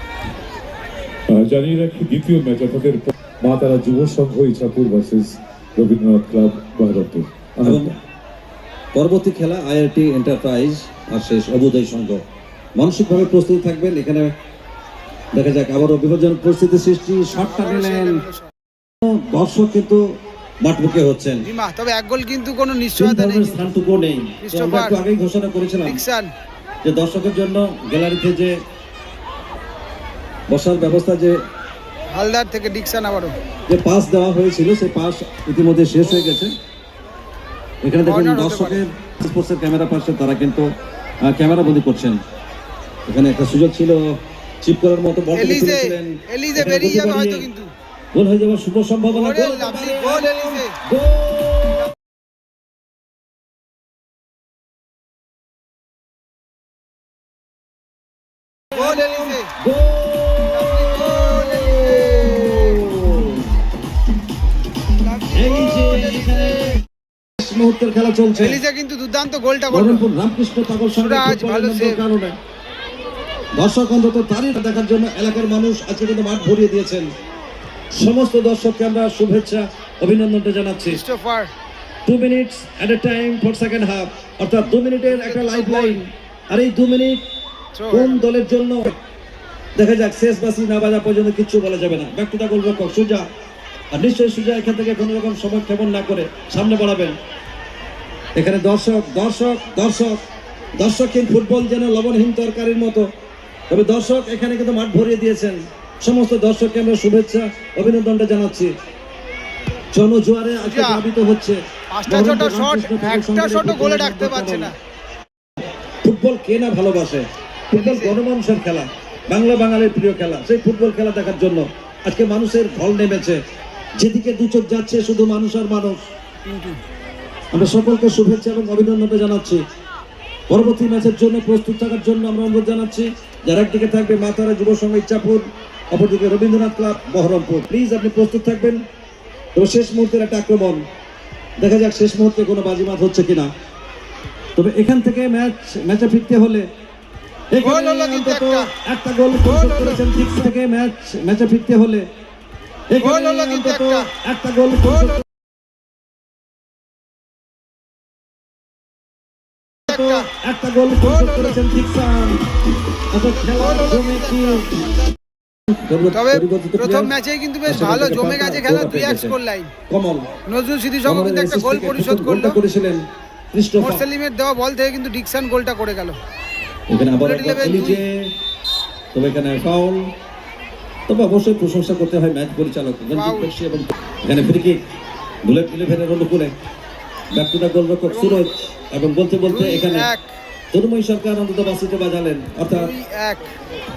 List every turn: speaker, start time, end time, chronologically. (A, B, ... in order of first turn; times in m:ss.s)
0:01.3-0:08.0 A
0:07.6-0:08.0 B
0:08.9-0:12.2 B
0:12.8-0:14.3 B
0:15.3-0:18.2 B
0:17.3-0:18.5 C
0:19.0-0:20.0 B
0:20.6-0:21.4 B
0:21.4-0:23.6 C
0:23.0-0:26.0 B
0:24.4-0:25.0 C
0:25.8-0:26.3 C
0:26.8-0:28.5 B
0:30.5-0:31.3 B
0:32.1-0:33.4 C
0:33.7-0:36.5 B
0:37.8-0:40.7 B
0:38.0-0:38.8 C
0:41.2-0:42.2 B
0:43.1-0:44.0 B
0:44.6-0:47.5 B
0:45.3-0:47.7 C
0:48.1-0:51.9 B
0:49.1-0:50.8 C
0:58.7-0:59.5 C
0:58.8-1:03.5 B
1:00.5-1:02.8 C
1:05.0-1:06.8 C
1:05.3-1:06.8 B
1:07.4-1:08.6 B
1:08.3-1:10.0 C
1:09.7-1:12.3 B
1:10.9-1:12.0 C
1:13.6-1:17.1 B
1:17.9-1:21.0 B
1:20.9-1:21.5 C
1:22.0-1:27.2 B
1:25.1-1:26.0 C
1:27.8-1:28.2 C
1:27.9-1:29.0 B
1:29.8-1:33.2 B
1:33.9-1:37.2 B
1:38.4-1:40.2 B
1:40.8-1:43.1 B
1:43.7-1:48.7 B
1:49.9-1:54.7 B
1:50.6-1:51.0 C
1:51.9-1:54.7 C
1:56.0-2:03.4 B
1:57.7-1:58.2 C
2:04.0-2:06.0 B
2:06.4-2:06.8 C
2:07.5-2:09.6 B
2:10.5-2:18.8 B
2:19.5-2:20.8 B
2:21.6-2:23.5 B
2:24.6-2:26.6 B
2:27.5-2:32.0 B
2:27.6-2:28.7 C
2:29.4-2:30.0 C
2:32.9-2:35.2 B
2:33.0-2:34.1 C
2:39.9-2:40.3 C
2:39.9-2:42.4 B
2:41.0-2:41.6 C
2:43.1-2:44.7 B
2:43.3-2:45.0 C
2:45.7-2:47.1 B
2:46.1-2:49.7 C
2:47.6-2:49.3 B
2:49.9-2:50.3 B
2:50.5-2:52.6 C
2:51.0-2:53.0 B
2:53.5-2:54.0 B
2:53.8-2:56.2 C
2:56.9-2:58.3 B
2:57.2-2:58.0 C
2:59.1-3:00.1 B
3:01.1-3:04.8 B
3:03.1-3:03.5 C
3:05.4-3:06.5 B
3:07.3-3:10.1 B
3:08.1-3:08.4 C
3:09.5-3:10.3 C
3:10.7-3:12.9 B
3:12.7-3:13.5 C